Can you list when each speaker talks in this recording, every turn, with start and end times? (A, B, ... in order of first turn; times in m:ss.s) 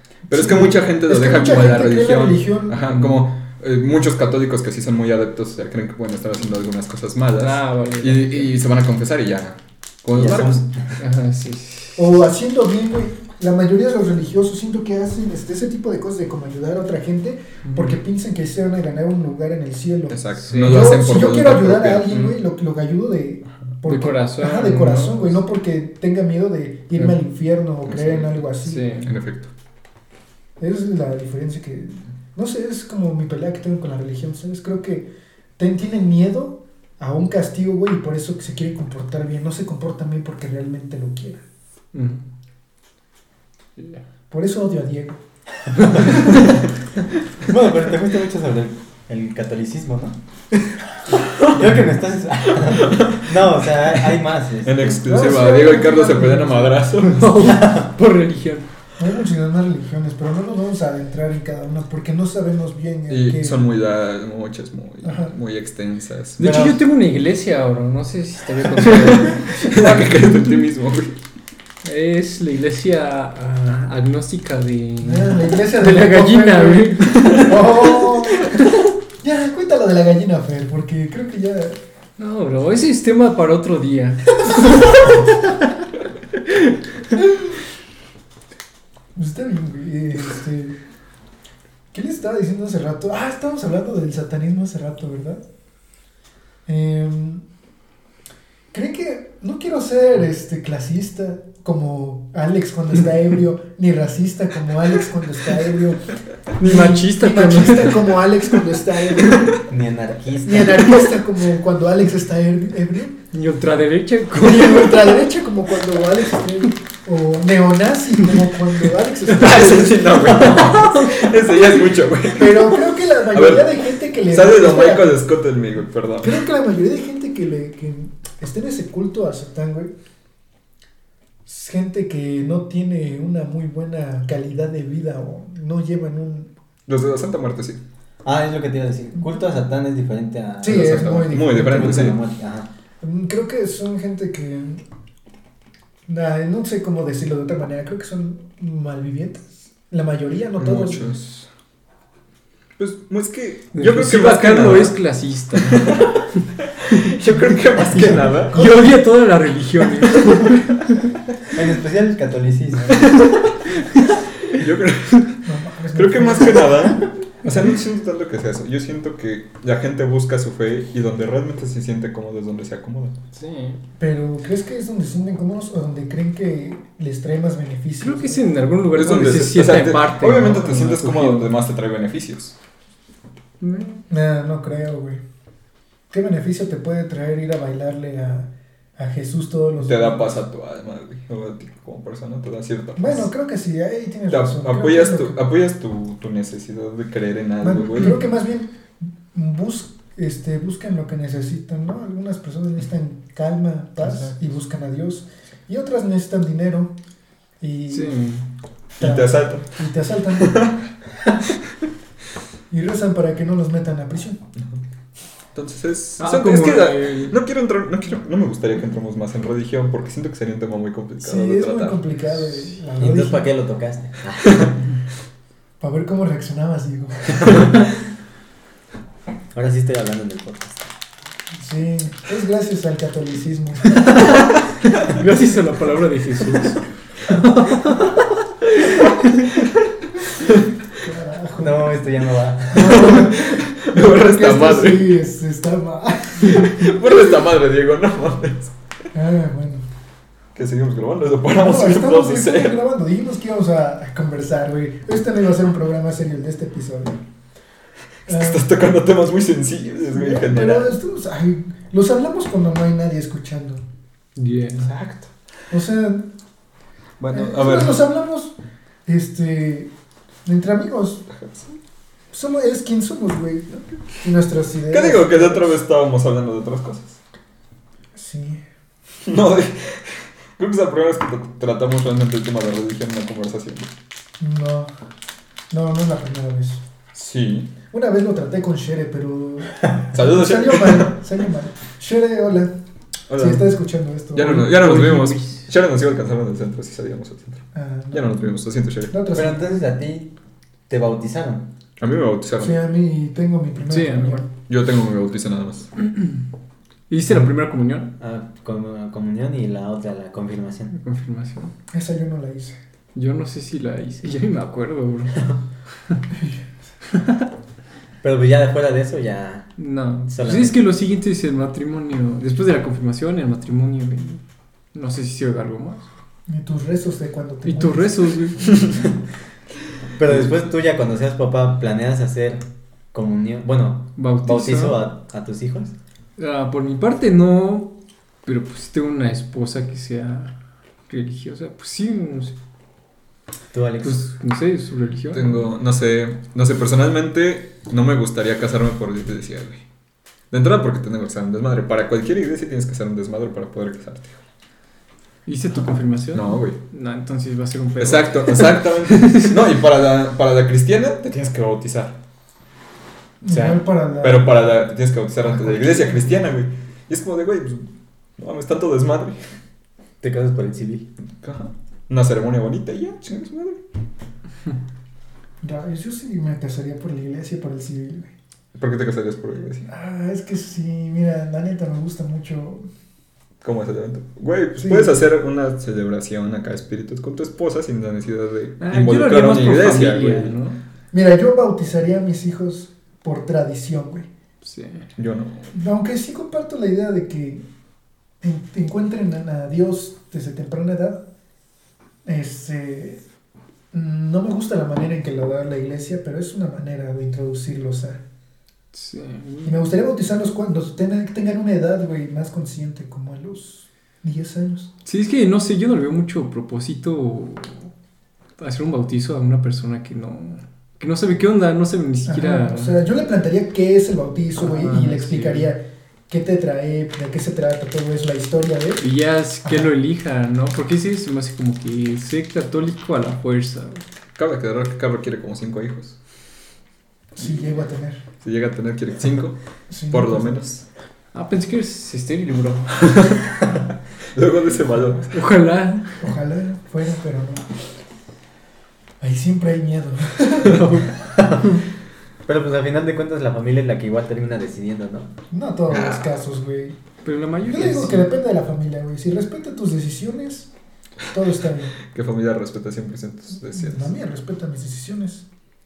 0:00.3-0:10.6 A
0:00.3-0:02.8 B
0:02.9-0:03.2 C
0:07.4-0:08.5 C
0:10.1-0:10.9 D
0:11.0-0:12.2 C
0:12.0-0:28.9 B
0:17.6-0:18.0 C
0:20.1-0:22.4 A
0:20.4-0:21.0 C
0:23.8-0:25.4 C
0:27.8-0:28.4 A
0:28.6-0:29.1 C
0:29.0-0:29.5 A
0:30.6-0:41.4 B
0:41.9-0:42.2 C
0:43.8-0:44.0 C
0:44.3-0:45.2 B
0:45.8-0:46.3 C
0:45.9-0:46.4 D
0:47.4-0:50.2 D
0:51.2-0:55.0 D
0:52.5-0:53.4 A
0:54.6-0:57.5 A
0:55.0-0:56.9 B
0:57.0-0:58.7 C
0:57.4-0:57.9 D
0:59.0-1:03.6 B
1:03.1-1:06.5 A
1:05.0-1:05.3 B
1:06.4-1:10.3 C
1:06.4-1:06.8 D
1:08.8-1:11.2 A
1:11.8-1:18.1 C
1:15.0-1:21.8 B
1:22.2-1:25.5 C
1:24.4-1:25.2 B
1:26.5-1:26.7 C
1:29.1-1:30.8 B
1:31.9-1:35.4 B
1:36.6-1:37.4 B
1:38.7-1:49.6 B
1:46.6-1:48.4 C
1:49.6-1:51.0 D
1:50.4-1:53.2 B
1:53.3-1:55.2 C
1:54.3-2:00.3 B
1:59.3-2:06.4 A
2:00.3-2:00.9 D
2:00.4-2:01.2 C
2:02.3-2:05.2 B
2:06.2-2:09.9 B
2:11.4-2:16.5 B
2:16.9-2:17.8 A
2:18.2-2:22.7 D
2:20.6-2:22.1 B
2:20.6-2:22.2 A
2:23.0-2:24.8 B
2:26.1-2:31.2 B
2:30.6-2:31.5 A
2:32.8-2:35.0 A
2:33.7-2:36.0 C
2:35.5-2:38.6 A
2:37.7-2:38.8 B
2:38.5-2:41.0 C
2:41.5-2:43.3 D
2:43.1-2:44.2 C
2:44.5-2:45.4 A
2:45.4-2:47.0 B
2:45.9-2:53.2 A
2:53.3-2:53.8 C
2:54.0-2:58.4 B
2:58.0-3:01.5 C
2:58.9-3:02.6 A
3:03.6-3:04.0 C
3:04.1-3:05.2 B
3:06.1-3:10.4 B
3:09.8-3:13.3 A
3:13.0-3:15.4 B
3:14.3-3:18.2 A
3:17.6-3:18.7 B
3:19.3-3:26.9 B
3:27.6-3:28.1 B
3:27.9-3:28.5 C
3:29.0-3:29.7 A
3:29.0-3:30.7 B
3:30.4-3:30.7 A
3:32.7-3:34.4 B
3:35.5-3:42.0 A
3:36.2-3:37.4 C
3:41.2-3:43.5 B
3:43.0-3:44.8 D
3:44.4-3:44.7 A
3:45.8-3:47.6 B
3:47.4-3:47.7 D
3:49.5-3:50.9 D
3:51.6-3:54.1 B
3:54.0-3:59.5 C
4:01.0-4:01.9 B
4:01.6-4:03.1 D
4:02.7-4:06.7 B
4:02.8-4:05.2 A
4:06.4-4:08.7 A
4:09.1-4:09.8 B
4:10.5-4:12.8 A
4:11.5-4:17.2 B
4:18.2-4:20.9 A
4:18.3-4:18.6 B
4:20.1-4:23.8 B
4:24.4-4:24.9 C
4:24.8-4:25.3 A
4:25.7-4:26.3 B
4:27.2-4:28.0 A
4:27.3-4:28.5 B
4:29.0-4:29.9 B
4:30.4-4:31.2 B
4:31.3-4:31.7 A
4:32.3-4:35.8 B
4:34.9-4:37.2 A
4:38.1-4:38.6 B
4:39.2-4:43.9 A
4:44.4-4:44.9 B
4:45.7-4:46.8 B
4:47.1-4:47.7 A
4:47.9-4:52.7 B
4:50.1-4:51.1 A
4:53.3-4:53.7 A
4:53.3-4:54.8 B
4:54.3-4:59.1 A
4:54.4-4:55.6 C
4:57.7-4:58.4 B
4:59.1-4:59.8 B
4:59.3-5:00.3 D
5:00.9-5:01.7 D
5:02.0-5:02.8 A
5:02.6-5:04.4 B
5:03.9-5:04.4 C
5:04.7-5:05.9 A
5:06.0-5:06.4 C
5:07.1-5:08.1 C
5:08.2-5:10.9 D
5:10.9-5:11.7 C
5:11.9-5:12.8 B
5:13.1-5:15.5 C
5:16.3-5:16.6 B
5:18.2-5:19.7 D
5:19.8-5:24.4 C
5:20.3-5:20.8 D
5:24.9-5:26.0 C
5:26.5-5:28.2 B
5:27.6-5:28.8 C
5:30.2-5:35.9 D
5:34.2-5:35.0 C
5:36.4-5:37.9 C
5:38.4-5:40.5 C
5:41.1-5:42.6 C
5:43.7-5:44.2 D
5:44.0-5:45.6 C
5:45.3-5:49.8 A
5:50.5-5:54.4 A
5:55.4-5:59.6 C
5:56.3-5:56.8 A
5:58.0-6:02.2 A
6:03.4-6:04.6 B
6:03.5-6:09.4 A
6:05.6-6:06.2 B
6:10.2-6:11.1 D
6:11.4-6:13.8 A
6:15.6-6:18.3 B
6:18.7-6:19.9 A
6:19.9-6:22.8 B
6:23.6-6:30.5 A
6:24.8-6:25.2 B
6:28.8-6:30.8 C
6:31.1-6:34.3 B
6:34.6-6:35.1 C
6:35.2-6:35.7 A
6:35.7-6:37.6 B
6:38.4-6:41.2 B
6:42.2-6:43.2 B
6:43.9-6:48.2 B
6:48.9-6:49.8 C
6:49.6-6:54.9 B
6:55.0-6:57.9 C
6:58.6-7:03.0 C
7:02.2-7:09.0 B
7:04.6-7:05.7 C
7:09.0-7:14.0 C
7:09.6-7:09.9 B
7:14.4-7:16.2 A
7:17.3-7:18.2 B
7:18.4-7:19.6 A
7:19.9-7:20.5 B
7:20.1-7:20.8 A
7:21.3-7:23.3 C
7:24.3-7:25.4 A
7:25.3-7:26.2 C
7:26.2-7:27.7 B
7:29.2-7:31.0 B
7:30.6-7:31.1 C
7:31.2-7:31.8 D
7:32.4-7:35.3 D
7:35.5-7:37.0 B
7:35.9-7:36.3 A
7:37.2-7:38.3 C
7:37.6-7:40.7 B
7:41.3-7:42.0 B
7:42.0-7:44.1 A
7:43.7-7:45.4 B